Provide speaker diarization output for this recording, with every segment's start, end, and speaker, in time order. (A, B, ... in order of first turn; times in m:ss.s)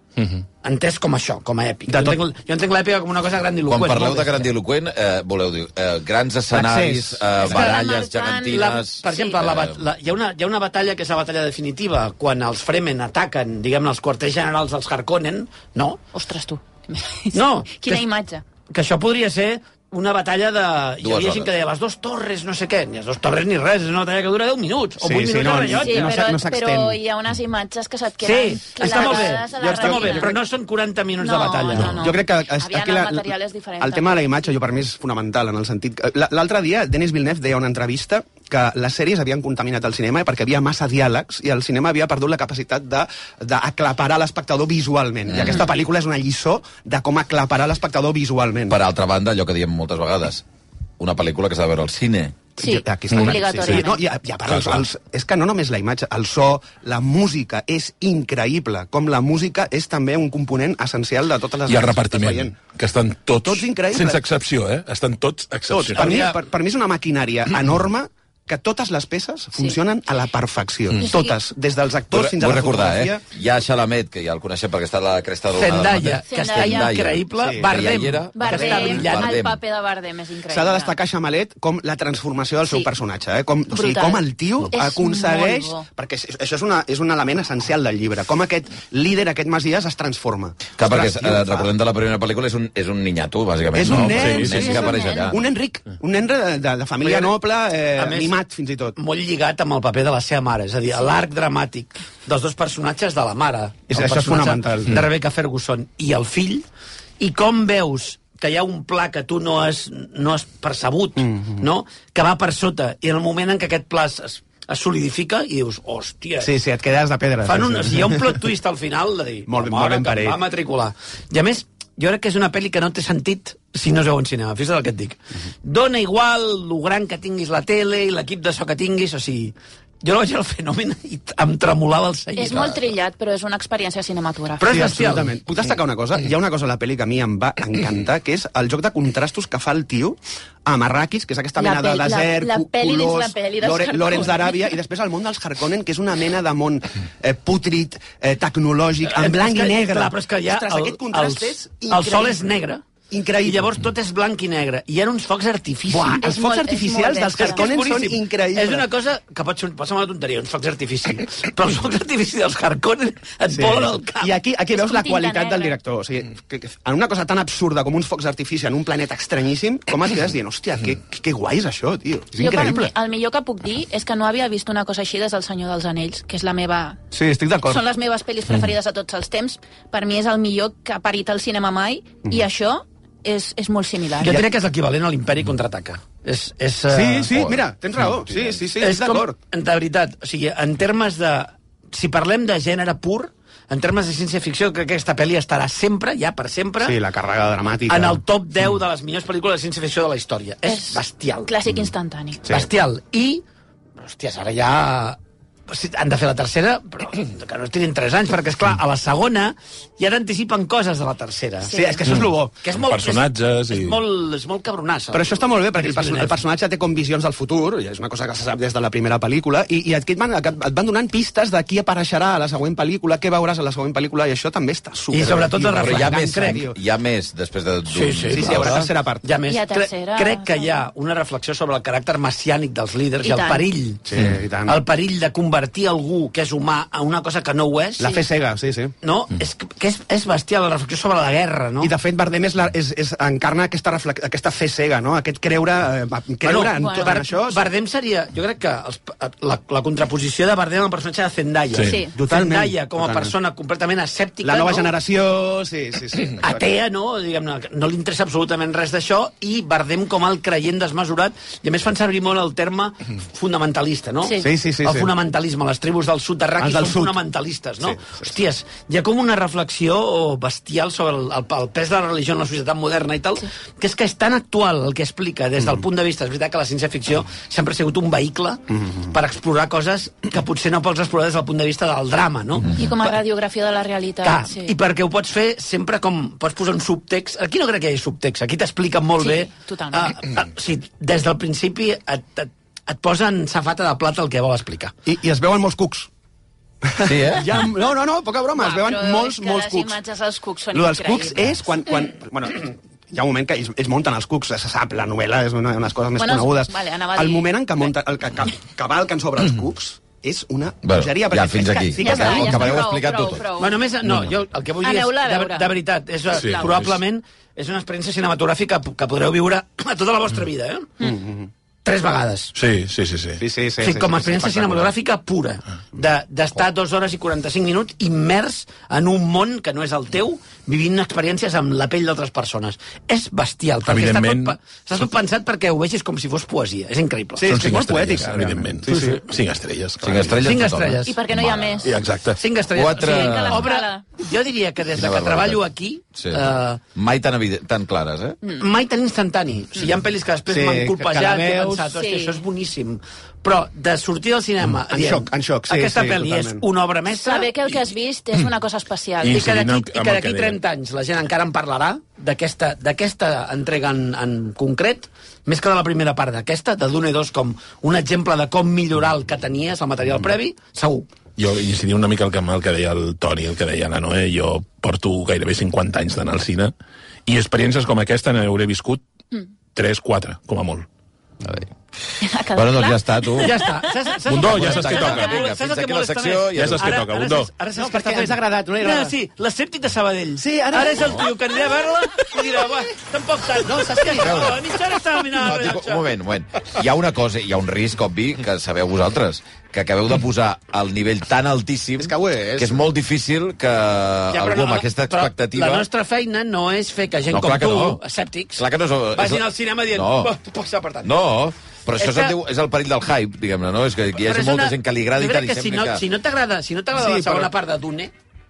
0:00.2-0:00.4 A
0:00.6-0:04.5 B
0:03.7-0:09.8 C
0:06.5-0:07.3 D
0:07.4-0:09.4 E
0:07.5-0:07.8 B
0:08.5-0:16.0 B
0:16.1-0:18.4 E
0:17.3-0:18.1 B
0:18.7-0:26.2 B
0:21.0-0:21.5 C
0:25.0-0:27.0 D
0:25.6-0:30.4 E
0:28.2-0:32.1 B
0:28.8-0:30.4 D
0:31.2-0:34.5 E
0:31.8-0:48.8 D
0:45.3-0:45.7 C
0:45.4-0:45.7 E
0:48.7-0:50.4 C
0:51.0-0:52.4 C
0:52.6-1:02.6 D
0:52.6-0:54.0 E
0:53.1-0:53.8 A
0:54.5-0:54.8 A
1:01.7-1:06.3 A
1:03.4-1:04.2 D
1:05.7-1:13.2 D
1:05.9-1:06.4 B
1:11.0-1:11.4 E
1:12.1-1:19.6 C
1:15.5-1:19.3 B
1:16.3-1:17.0 E
1:17.4-1:17.9 D
1:18.4-1:20.9 E
1:18.5-1:19.1 D
1:20.5-1:31.7 D
1:23.7-1:25.9 E
1:30.8-1:35.4 C
1:33.7-1:39.0 D
1:33.9-1:34.6 A
1:34.5-1:35.4 E
1:37.0-1:37.3 B
1:38.0-1:38.4 B
1:39.0-1:46.7 B
1:43.9-1:45.0 D
1:47.2-1:56.5 B
1:51.2-1:51.6 D
1:56.4-1:58.4 D
1:57.4-2:12.8 B
1:59.5-2:00.4 D
2:12.4-2:14.7 E
2:14.6-2:15.4 B
2:14.6-2:32.5 D
2:21.6-2:24.7 E
2:29.0-2:32.8 B
2:33.1-2:33.7 D
2:33.4-2:36.3 B
2:35.9-2:38.9 D
2:36.2-2:37.8 E
2:37.4-2:44.4 B
2:43.5-2:52.9 D
2:44.7-2:45.8 E
2:52.4-2:57.0 E
2:57.1-2:57.8 D
2:57.6-3:04.4 E
3:04.2-3:07.5 B
3:06.9-3:09.4 D
3:08.8-3:17.0 B
3:16.8-3:18.2 D
3:17.9-3:21.5 B
3:20.6-3:22.4 E
3:22.5-3:23.4 B
3:24.0-3:31.7 B
3:31.6-3:32.1 E
3:31.7-3:32.6 D
3:32.1-3:34.0 A
3:32.6-3:36.4 B
3:35.1-3:46.8 D
3:45.1-3:46.6 B
3:45.8-3:48.8 C
3:47.9-3:58.2 B
3:48.3-3:49.3 D
3:49.4-3:50.9 E
3:53.2-3:53.6 E
3:54.1-3:54.8 D
3:58.0-3:58.9 D
3:59.0-4:01.9 B
4:01.8-4:07.7 D
4:06.4-4:14.9 B
4:06.7-4:07.2 E
4:11.8-4:12.1 E
4:12.1-4:13.3 D
4:14.4-4:16.7 D
4:16.4-4:43.1 B
4:24.2-4:24.5 E
4:24.4-4:25.1 D
4:26.6-4:27.2 D
4:27.8-4:28.3 D
4:38.7-4:39.1 D
4:42.8-4:44.7 E
4:44.2-4:54.9 B
4:49.2-4:50.2 E
4:55.1-4:56.1 D
4:56.8-5:00.0 D
4:57.0-4:57.6 C
4:58.6-5:01.6 E
5:00.7-5:12.9 D
5:06.2-5:07.8 E
5:10.8-5:13.5 C
5:12.0-5:13.8 E
5:13.6-5:21.0 B
5:14.8-5:15.8 E
5:16.3-5:17.0 A
5:16.4-5:16.7 E
5:21.0-5:21.5 D
5:21.8-5:22.6 B
5:22.6-5:23.4 A
5:23.4-5:24.9 D
5:23.8-5:37.7 B
5:33.9-5:34.6 A
5:37.4-5:39.2 D
5:37.5-5:40.6 A
5:38.9-5:39.1 B
5:40.0-5:42.0 C
5:40.4-5:41.2 B
5:41.0-5:42.0 E
5:41.8-5:42.4 A
5:42.4-5:46.8 B
5:42.7-5:43.7 C
5:43.0-5:44.0 E
5:45.0-5:45.6 C
5:46.2-5:48.4 C
5:48.6-5:57.5 B
5:50.5-5:51.9 D
5:51.9-5:52.4 E
5:54.9-5:56.6 D
5:57.1-5:59.5 E
5:59.2-6:00.6 A
5:59.3-6:11.1 B
6:11.4-6:16.7 A
6:17.3-6:19.0 A
6:19.8-6:20.9 A
6:22.2-6:23.6 E
6:22.5-6:23.6 C
6:23.4-6:36.1 B
6:24.3-6:25.3 A
6:24.4-6:26.9 C
6:26.5-6:27.5 A
6:27.8-6:29.2 D
6:30.4-6:31.3 D
6:34.2-6:34.6 C
6:35.4-6:45.9 C
6:42.0-6:42.8 D
6:44.3-6:51.1 B
6:47.3-6:48.0 C
6:48.6-6:50.3 C
6:51.0-6:56.0 C
6:52.0-6:52.4 B
6:54.2-6:58.1 B
6:57.0-6:57.5 D